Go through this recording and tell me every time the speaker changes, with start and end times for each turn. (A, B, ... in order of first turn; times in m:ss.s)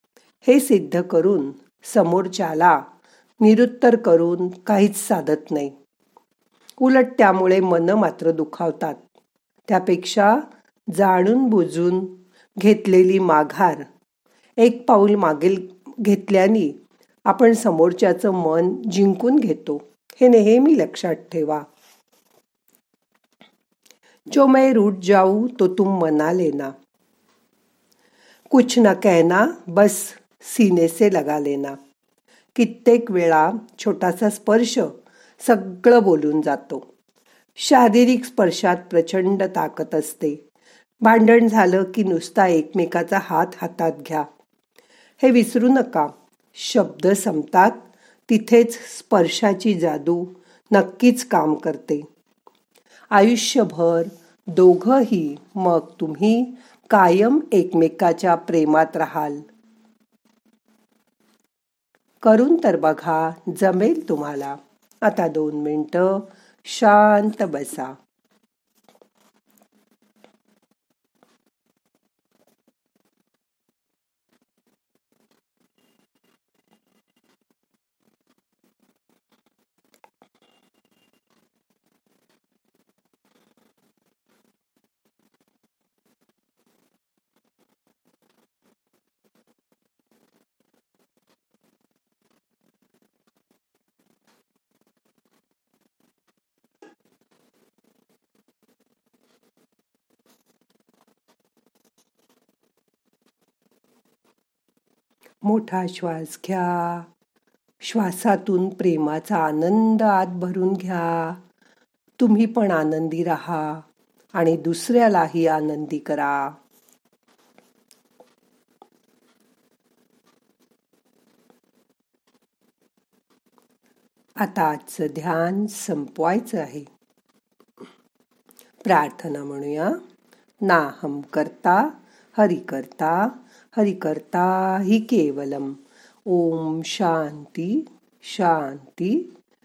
0:00.4-0:02.8 A
0:03.4-0:05.7 A
0:06.8-0:09.0 A
0:09.7-0:13.8 A
0:14.6-0:16.8 A
0:17.3-0:21.6 A
0:24.3-0:26.7 A
0:28.5-0:31.8 A
0:32.5-0:36.8 A
0:37.6-0:40.4 A
0:41.0-0:44.3 A
0:45.2-0:52.0 A
0:53.1-0:59.4 A
1:02.2-1:07.9 A
1:45.4-1:47.1 A
1:47.8-1:51.4 A
1:52.2-1:56.5 A
2:04.4-2:06.9 A
2:08.8-2:10.0 A
2:10.6-2:19.3 A